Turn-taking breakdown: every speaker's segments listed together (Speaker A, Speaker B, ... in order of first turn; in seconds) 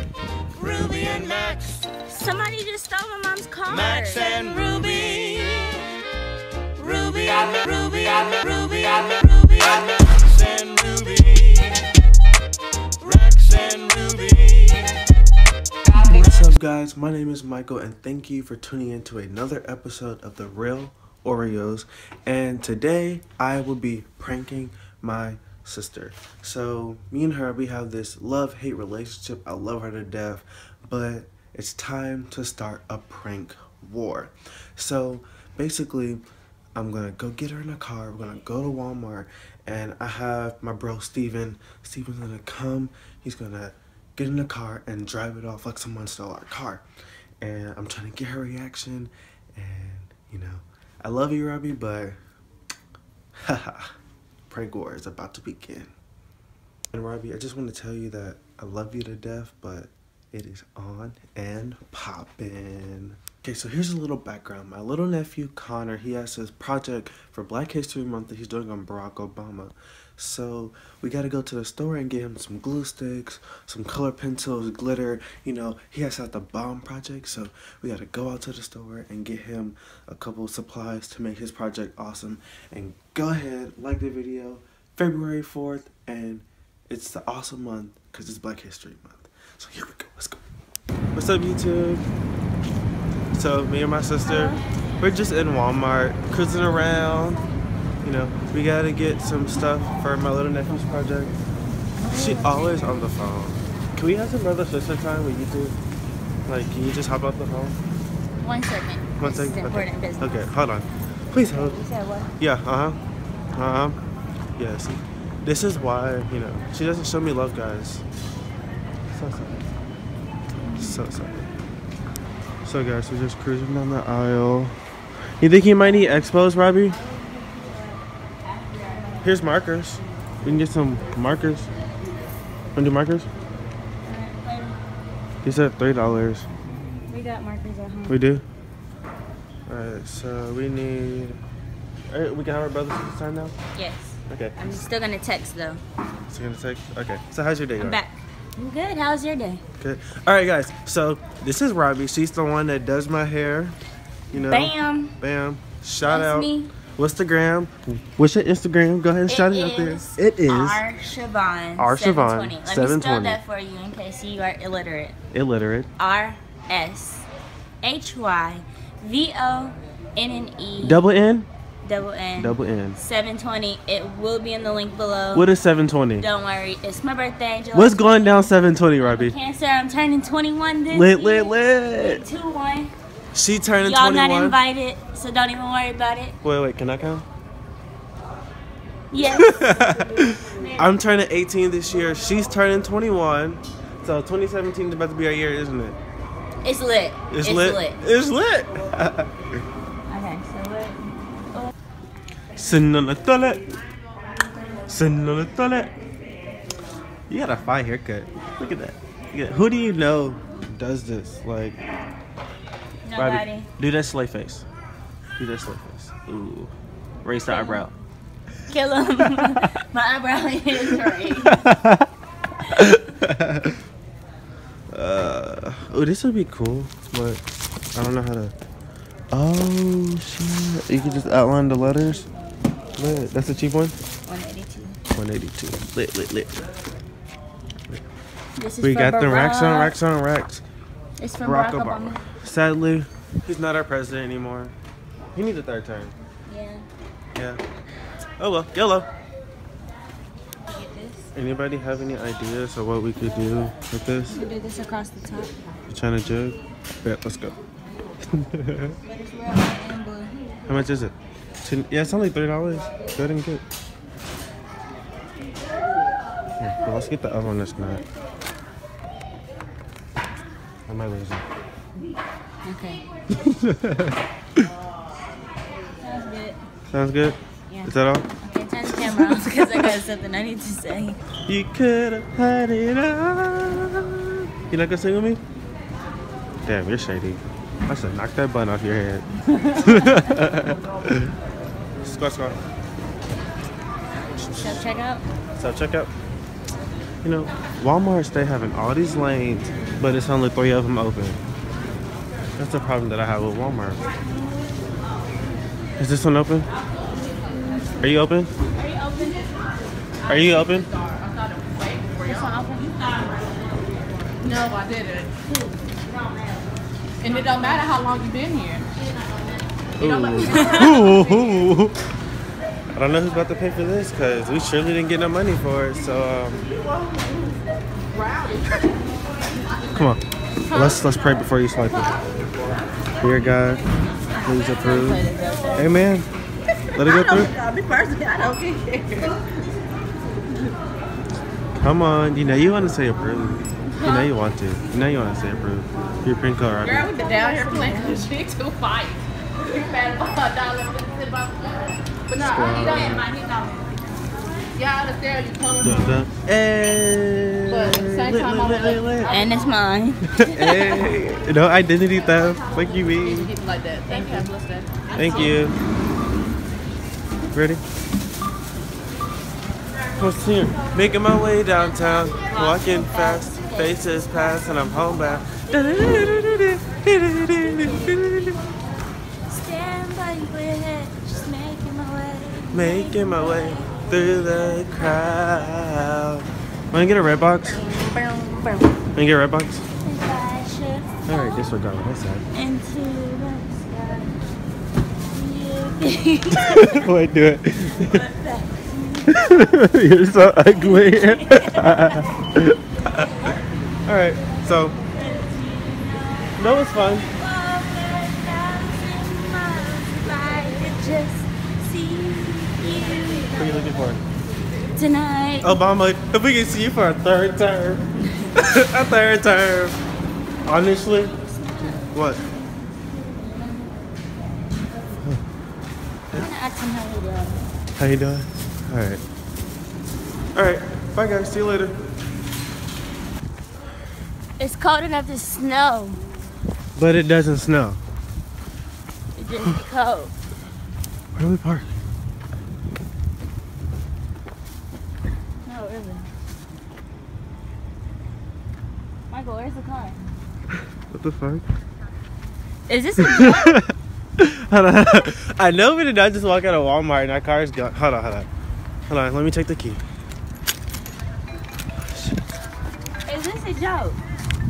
Speaker A: 0.6-1.9, 3.7-5.8, 6.8-11.9, 13.0-15.0
Speaker B: 2.0-5.0, 94.2-94.6, 102.0-103.0, 108.4-110.4, 111.5-112.3, 120.7-121.0, 127.1-127.9, 128.7-129.2, 134.0-134.8, 137.1-138.2, 143.8-145.8, 147.8-149.6, 154.3-155.2, 156.1-156.8, 159.3-165.2, 166.0-167.3, 167.8-171.0, 171.8-175.5, 176.2-182.9, 183.8-186.4, 189.1-190.8, 196.6-198.0, 200.1-201.7, 213.1-213.7, 217.5-217.9, 218.7-221.8, 234.3-235.0, 238.6-240.0, 241.2-242.2, 246.5-246.8, 250.7-251.3, 254.3-255.5, 259.1-260.3, 272.6-273.1, 276.0-276.6, 277.7-281.2, 289.7-290.3, 294.4-295.2, 308.8-309.5, 312.2-313.4, 317.2-317.8, 320.4-320.9, 334.4-335.9, 337.0-339.3, 347.3-348.3, 353.0-353.9, 359.3-361.0, 364.1-364.5, 372.1-375.2, 377.6-378.2, 379.5-385.5, 387.7-389.0, 390.0-391.6, 392.5-394.3, 395.3-397.1, 398.0-399.7, 400.4-402.2, 403.2-403.6, 405.0-413.9, 414.9-415.8, 421.4-422.1, 423.2-424.2, 426.3-427.7, 434.6-436.2, 439.4-440.3, 445.6-446.3, 449.3-450.2, 452.9-453.8, 463.3-464.2
Speaker C: 15.9-36.2, 36.8-46.8, 47.4-52.2, 53.4-53.9, 54.5-55.9, 56.9-90.4, 91.2-92.0, 93.3-97.5, 98.0-101.3, 102.1-105.8, 106.5-107.8, 109.2-111.8, 112.4-113.0, 113.5-114.0, 114.6-118.0, 119.1-119.7, 120.8-121.5, 122.6-124.8, 125.4-127.0, 129.2-131.7, 132.8-133.3, 135.4-136.5, 138.1-138.4, 139.7-141.4, 142.1-143.5, 144.3-144.8, 146.3-148.0, 149.8-153.8, 154.3-160.8, 161.8-163.4, 165.3-165.9, 170.8-171.5, 172.4-173.0, 175.3-176.3, 177.7-179.3, 180.9-182.2, 183.3-184.6, 186.4-187.2, 189.2-196.0, 197.3-199.3, 202.6-203.7, 204.9-205.9, 207.3-211.8, 213.2-214.7, 215.4-216.7, 217.2-217.9, 221.3-222.1, 222.7-223.8, 224.9-227.4, 227.9-228.5, 229.3-232.3, 233.0-234.0, 235.1-236.5, 238.8-240.6, 241.4-244.7, 245.3-246.1, 247.3-247.6, 248.4-249.1, 251.3-254.4, 255.9-257.6, 258.3-259.0, 260.7-263.6, 266.6-268.0, 270.9-271.4, 273.4-274.1, 276.9-278.3, 278.9-279.7, 281.5-285.4, 286.6-291.3, 292.0-292.6, 295.6-296.1, 297.2-301.4, 302.6-304.0, 306.0-306.7, 308.0-308.5, 310.3-310.9, 320.0-321.9, 322.9-326.7, 329.9-332.2, 333.2-333.8, 334.4-335.2, 335.8-336.3, 336.9-337.5, 341.8-347.1, 352.4-353.3, 355.8-359.4, 360.4-363.5, 365.1-365.8, 367.5-367.8, 370.2-378.6, 382.7-387.8, 389.1-389.9, 391.3-392.4, 396.5-398.2, 399.3-403.3, 404.1-405.0, 406.6-407.3, 413.6-414.2, 415.6-420.0, 420.7-422.4, 428.0-429.2, 430.5-432.0, 437.0-438.0, 441.4-441.9, 451.1-451.6, 453.2-458.5, 459.1-460.0
Speaker D: 310.7-312.4, 314.4-315.4, 317.2-318.9, 320.0-321.4, 328.1-328.8, 346.8-351.8, 352.3-353.2, 354.8-356.0, 357.7-359.5, 363.1-365.6